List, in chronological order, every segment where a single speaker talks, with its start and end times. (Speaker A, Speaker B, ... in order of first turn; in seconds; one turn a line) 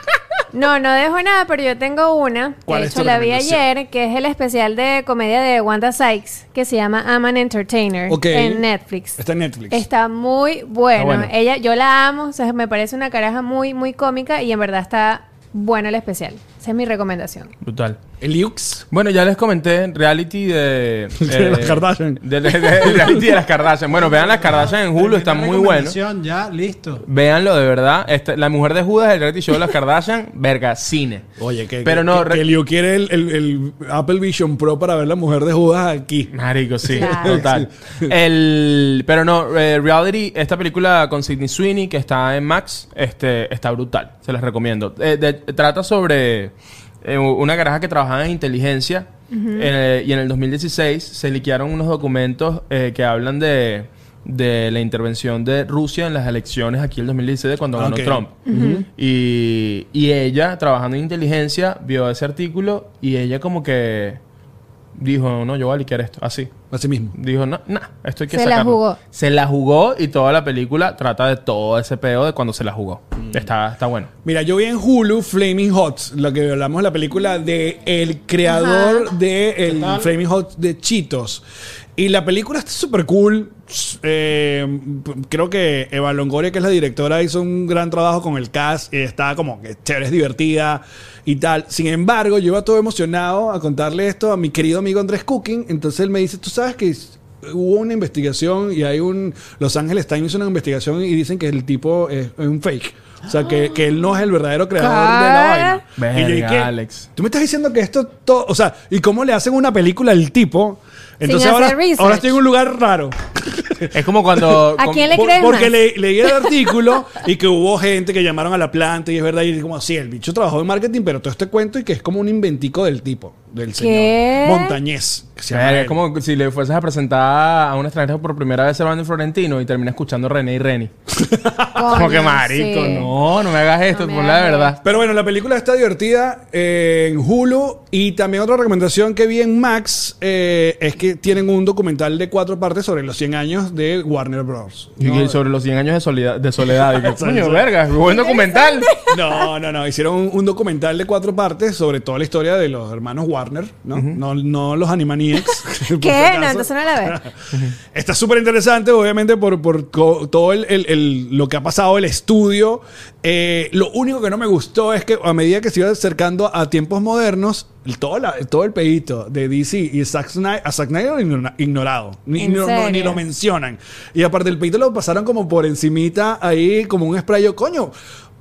Speaker A: 0.5-9.2
Speaker B: 2.6-3.6
Speaker B: 8.1-8.6
Speaker B: 9.2-9.8
Speaker A: 9.7-17.5
Speaker C: 11.0-11.3
Speaker C: 17.6-18.0
Speaker B: 18.2-18.8
Speaker C: 18.9-26.0
Speaker B: 21.2-23.3
Speaker D: 23.9-27.0
Speaker C: 27.0-31.2
Speaker B: 31.4-38.1
Speaker C: 31.8-32.5
Speaker C: 36.3-46.5
Speaker A: 36.9-37.4
Speaker C: 47.0-64.2
Speaker A: 49.3-49.7
Speaker B: 57.8-58.9
Speaker A: 58.5-58.8
Speaker C: 65.0-66.5
Speaker B: 66.7-67.1
Speaker C: 67.1-74.1
Speaker A: 68.3-69.0
Speaker B: 74.2-81.4
Speaker A: 78.4-79.1
Speaker D: 79.7-80.1
Speaker B: 82.0-126.0
Speaker A: 104.8-105.8
Speaker C: 106.0-107.1
Speaker A: 111.2-112.4
Speaker C: 113.9-115.2
Speaker A: 114.8-116.5
Speaker A: 123.8-124.8
Speaker C: 125.5-130.9
Speaker B: 131.1-132.0
Speaker A: 131.7-133.1
Speaker C: 131.9-134.8
Speaker A: 133.9-134.8
Speaker B: 134.8-145.4
Speaker C: 145.0-148.9
Speaker B: 146.6-147.7
Speaker A: 148.1-149.4
Speaker B: 149.0-157.3
Speaker A: 155.5-157.2
Speaker B: 157.8-177.9
Speaker A: 172.4-173.2